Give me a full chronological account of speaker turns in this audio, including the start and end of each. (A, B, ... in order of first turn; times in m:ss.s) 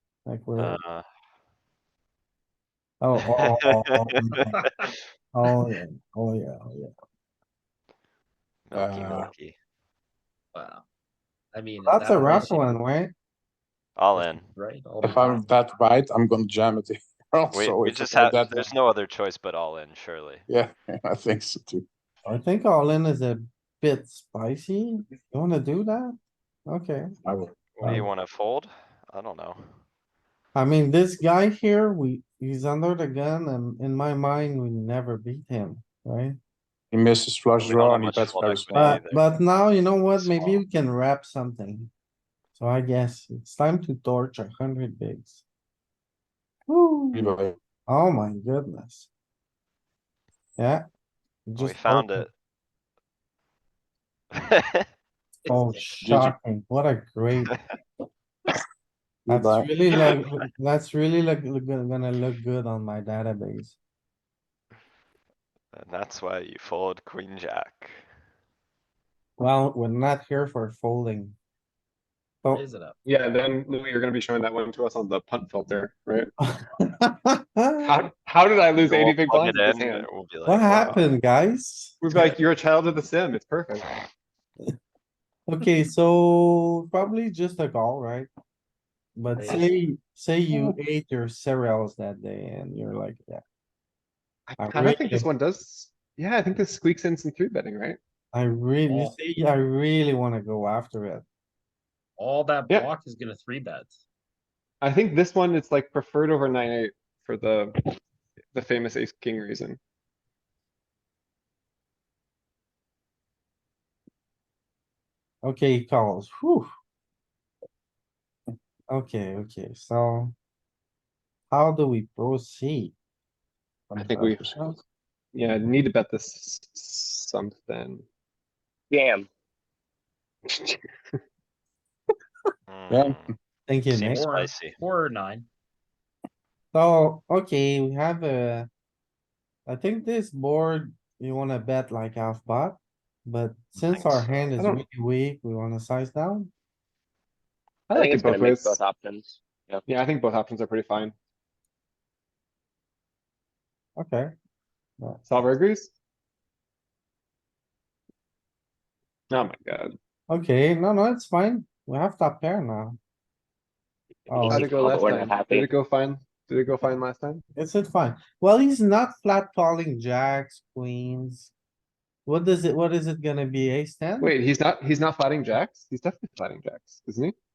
0:00.3-0:00.8 A
0:00.6-0:01.0 B
0:03.0-0:04.7 A
0:05.3-0:06.9 A
0:08.7-0:09.6 B
0:08.8-0:09.3 C
0:10.5-0:10.8 D
0:11.5-0:12.7 D
0:11.8-0:13.1 A
0:14.0-0:14.5 B
0:14.2-0:15.5 D
0:15.0-0:18.7 C
0:17.5-0:20.4 B
0:20.5-0:21.8 C
0:22.2-0:26.1 A
0:26.7-0:27.1 A
0:27.2-0:27.5 C
0:27.8-0:29.6 B
0:27.8-0:28.1 A
0:30.6-0:36.4 A
0:36.9-0:39.0 C
0:37.6-0:40.6 B
0:38.7-0:41.9 A
0:42.6-0:45.4 A
0:46.7-0:47.2 A
0:47.1-0:47.6 C
0:47.9-0:49.1 A
0:50.6-0:50.8 A
0:51.5-0:52.3 A
0:51.6-0:52.3 B
0:55.5-0:55.8 D
0:55.5-0:57.5 A
0:56.0-0:56.4 C
0:59.3-0:59.7 C
0:59.3-1:03.8 A
1:05.7-1:08.0 B
1:09.4-1:11.4 A
1:12.5-1:13.0 D
1:13.0-1:16.3 E
1:16.4-1:18.0 A
1:17.8-1:20.1 E
1:18.8-1:21.1 B
1:20.5-1:22.0 A
1:22.0-1:23.9 E
1:25.5-1:28.3 A
1:29.2-1:33.4 A
1:29.4-1:29.7 D
1:34.5-1:38.0 E
1:34.6-1:35.3 A
1:38.3-1:41.2 A
1:38.9-1:39.2 D
1:42.2-1:44.0 D
1:44.8-1:48.0 E
1:48.5-1:49.8 E
1:55.4-1:56.7 A
1:58.9-2:00.4 A
2:01.5-2:03.0 A
2:03.9-2:04.8 C
2:04.0-2:04.5 E
2:05.3-2:08.0 E
2:08.9-2:09.3 F
2:10.5-2:11.2 E
2:12.7-2:13.3 B
2:12.9-2:13.3 C
2:13.7-2:14.2 A
2:13.9-2:15.5 D
2:14.1-2:14.7 B
2:16.7-2:18.7 A
2:19.7-2:26.5 A
2:23.8-2:24.5 B
2:24.6-2:24.8 E
2:27.9-2:28.8 E
2:28.0-2:29.8 F
2:29.9-2:31.2 E
2:34.0-2:34.3 A
2:35.3-2:35.9 E
2:39.3-2:40.0 E
2:40.3-2:43.0 A
2:44.3-2:45.7 F
2:44.3-2:44.7 A
2:44.5-2:47.4 E
2:47.6-2:51.5 A
2:52.3-2:54.3 A
2:54.2-2:57.3 E